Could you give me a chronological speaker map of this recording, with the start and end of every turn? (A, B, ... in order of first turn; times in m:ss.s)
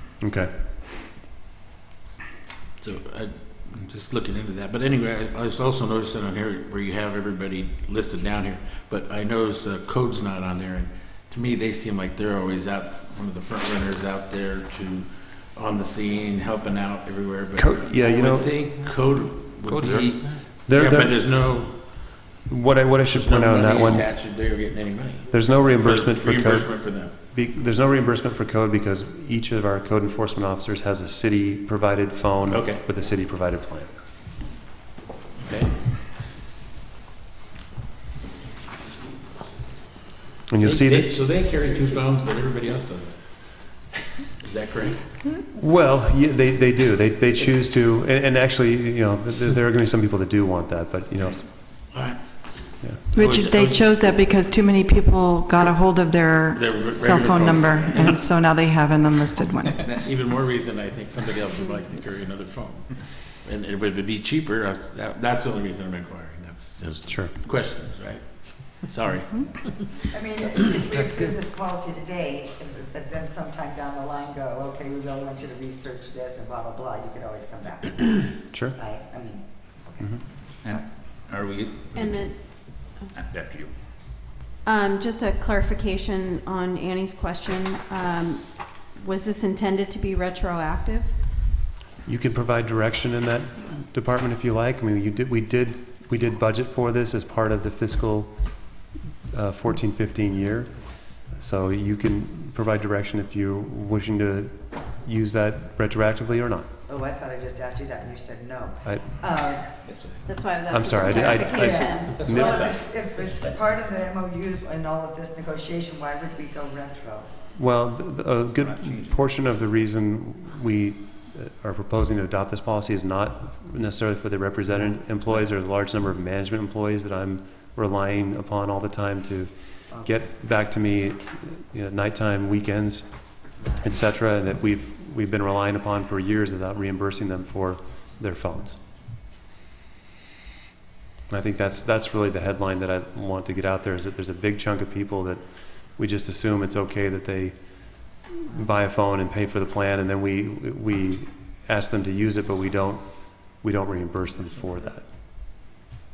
0:00.2-0:00.5 A
0:02.8-0:21.8 B
0:17.6-0:18.5 A
0:19.7-0:20.2 C
0:20.6-0:21.2 A
0:22.4-0:24.1 A
0:23.1-0:27.1 B
0:25.3-0:33.9 A
0:32.5-0:32.8 B
0:35.4-0:35.8 B
0:40.5-0:41.1 A
0:40.6-0:43.8 B
0:44.4-0:45.1 B
0:45.5-0:51.9 A
0:51.9-0:54.4 B
0:53.1-0:59.8 D
0:56.5-0:58.2 B
0:59.8-1:09.8 B
1:07.1-1:07.3 A
1:10.0-1:20.2 E
1:20.6-1:23.7 C
1:21.9-1:23.1 F
1:24.6-1:31.1 F
1:32.0-1:46.7 A
1:46.9-1:49.7 E
1:50.2-1:52.8 F
1:50.7-1:52.5 A
1:51.4-1:57.3 E
1:52.1-1:52.4 B
1:57.5-2:18.8 A
1:58.6-1:59.2 C
2:21.3-2:35.0 A